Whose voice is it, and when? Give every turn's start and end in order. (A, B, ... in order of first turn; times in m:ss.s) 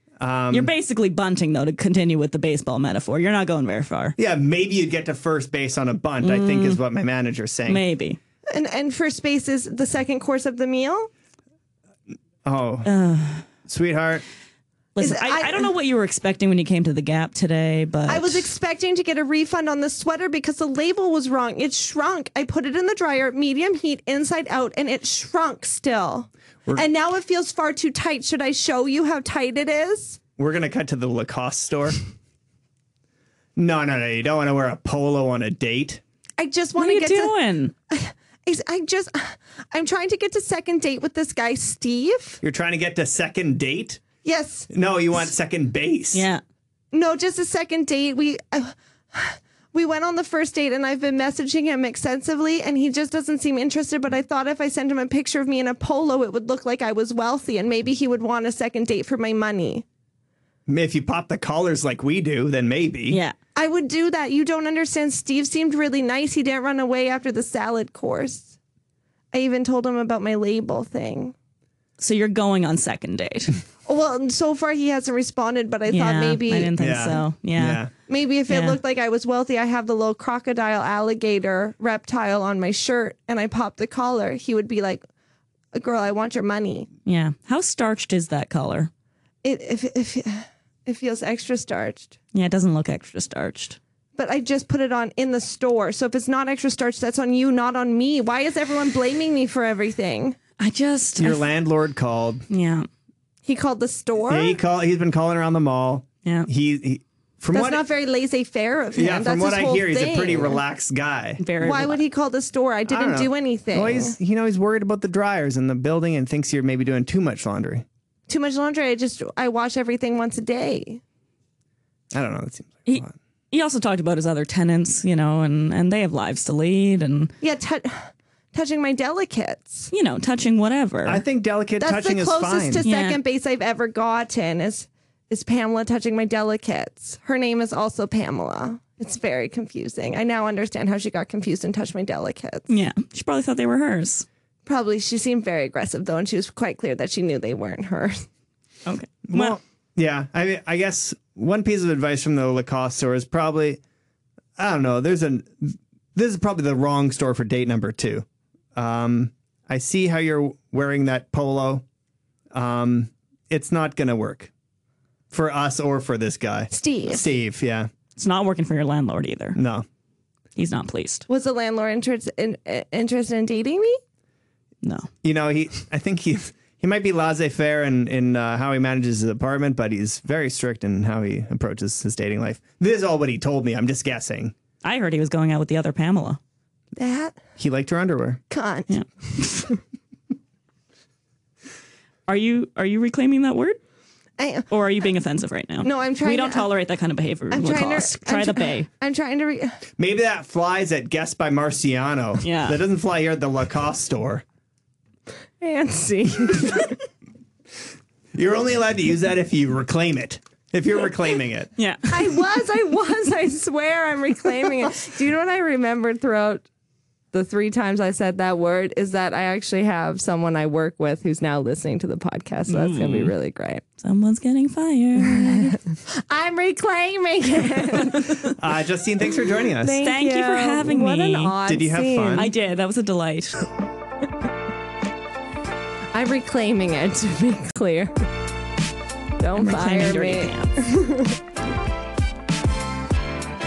0:00.2-0:00.7 A
0:00.5-0:04.1 B
0:04.2-0:07.8 A
0:06.2-0:06.8 B
0:07.7-0:08.2 B
0:08.5-0:11.1 C
0:12.4-0:12.9 A
0:12.8-0:13.4 B
0:13.6-0:14.2 A
0:15.0-0:18.5 B
0:15.0-0:15.7 C
0:18.1-0:30.2 C
0:30.4-0:32.0 A
0:33.6-0:36.0 A
0:36.4-0:37.4 C
0:36.8-0:37.7 B
0:37.9-0:42.4 C
0:42.4-0:44.0 A
0:44.2-0:44.7 C
0:44.7-0:46.3 A
0:46.1-0:46.4 B
0:46.9-0:59.8 C
1:00.7-1:03.2 A
1:03.1-1:03.4 B
1:03.6-1:08.6 C
1:09.3-1:11.3 C
1:12.0-1:13.6 B
1:13.9-1:16.8 C
1:15.9-1:17.8 B
1:16.8-1:17.9 A
1:18.1-1:25.0 C
1:18.5-1:18.8 B
1:25.7-1:26.9 C
1:27.0-1:28.9 B
1:29.4-1:32.1 C
1:32.3-1:33.8 B
1:34.2-1:40.4 C
1:40.6-1:41.4 B
1:41.2-1:42.4 A
1:42.5-1:42.9 B
1:43.4-1:44.6 C
1:44.3-1:47.8 A
1:47.5-1:50.6 C
1:48.9-1:51.4 A
1:51.4-1:52.0 B
1:51.6-1:54.2 C
1:52.9-1:57.9 A
1:58.3-2:01.0 C
2:02.1-2:03.2 A
2:02.9-2:07.3 B
2:07.4-2:09.9 C
2:09.9-2:11.2 B
2:11.0-2:12.8 A
2:11.8-2:22.7 C
2:12.8-2:13.2 B
2:22.7-2:24.3 B
2:24.6-2:28.3 C
2:28.9-2:29.6 B
2:29.3-2:33.8 A
2:34.6-2:41.8 A
2:42.5-2:44.5 A
2:45.3-2:47.9 A
2:46.7-2:47.3 C
2:48.2-2:49.6 B
2:49.6-2:49.9 A
2:50.6-2:51.3 B
2:51.3-2:54.0 C
2:54.8-2:55.1 B
2:55.2-3:04.6 A
3:04.8-3:06.4 B
3:07.0-3:07.4 C
3:07.6-3:08.4 A
3:08.5-3:09.7 C
3:08.9-3:09.7 B
3:12.3-3:13.8 B
3:14.4-3:14.7 C
3:14.7-3:18.9 B
3:15.8-3:16.7 C
3:17.5-3:19.8 C
3:20.0-3:24.4 A
3:22.4-3:22.8 B
3:25.6-3:27.0 C
3:28.3-3:31.7 A
3:31.8-3:32.3 B
3:32.1-3:36.6 C
3:37.3-3:43.8 C
3:42.7-3:43.3 B
3:44.0-3:45.8 B
3:45.2-3:48.5 C
3:48.5-3:50.0 A
3:49.8-3:52.5 C
3:50.0-3:51.6 B
3:51.6-3:52.5 A
3:52.4-3:53.7 B
3:56.1-3:58.1 C
3:59.4-4:01.4 C
3:59.6-4:00.8 B